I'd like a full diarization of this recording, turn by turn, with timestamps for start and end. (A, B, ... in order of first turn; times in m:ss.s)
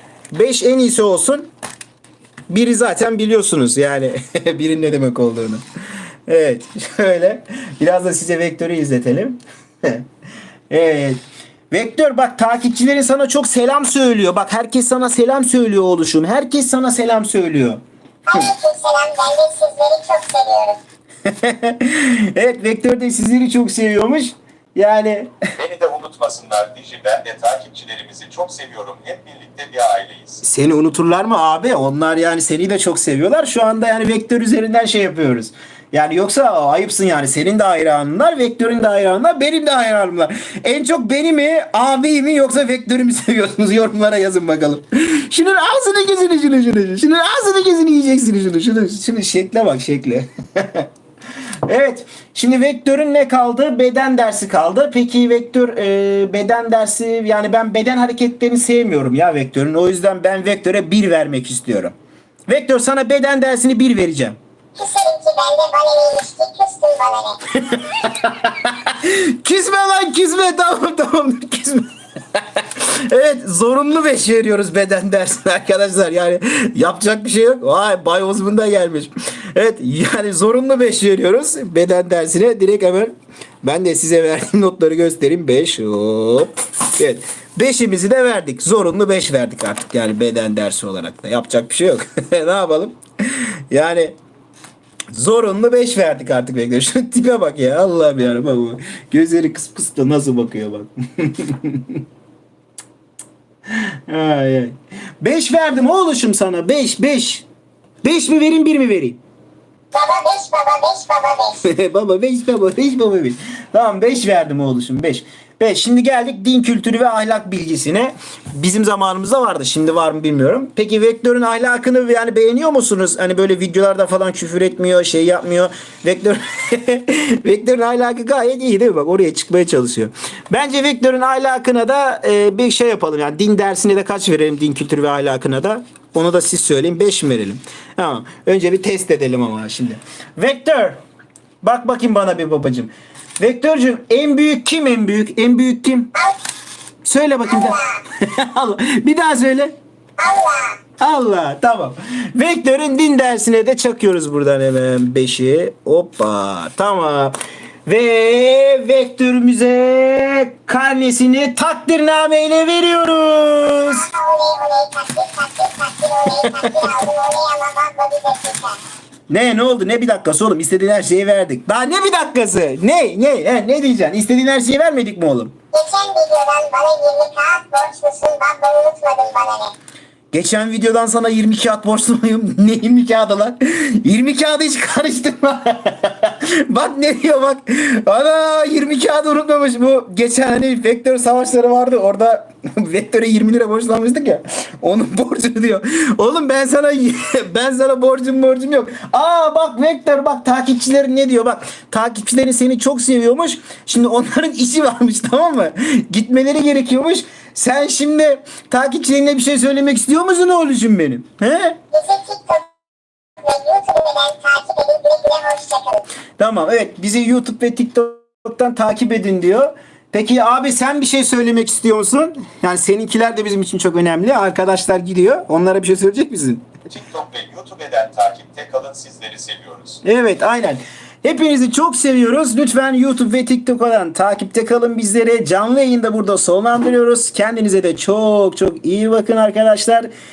0:00.3-0:01.5 A
0:02.5-0:05.6 A
0:06.3-0:10.1 A
0:10.7-0:11.2 A
0:11.7-0:17.8 A
0:18.3-0:20.8 B
0:21.2-0:25.3 A
0:25.6-0:30.4 C
0:30.4-0:50.9 A
0:51.6-1:01.9 A
1:02.5-1:04.4 A
1:04.8-1:07.4 B
1:07.5-1:34.2 A
1:35.1-1:42.0 A
1:43.7-1:47.4 A
1:48.0-1:49.2 A
1:49.9-1:51.6 B
1:51.6-2:21.0 A
2:21.6-2:26.1 A
2:26.1-2:26.4 B
2:27.0-2:29.8 A
2:27.5-2:28.0 B
2:30.2-2:30.8 B
2:31.0-2:44.1 A
2:43.9-2:48.8 B
2:46.4-2:46.9 A
2:49.3-2:55.5 A
2:55.7-2:59.7 B
3:00.3-3:31.8 A
3:31.9-3:32.7 B
3:33.4-3:36.0 B
3:36.4-3:46.7 A
3:46.9-3:50.0 C
3:50.0-4:00.1 A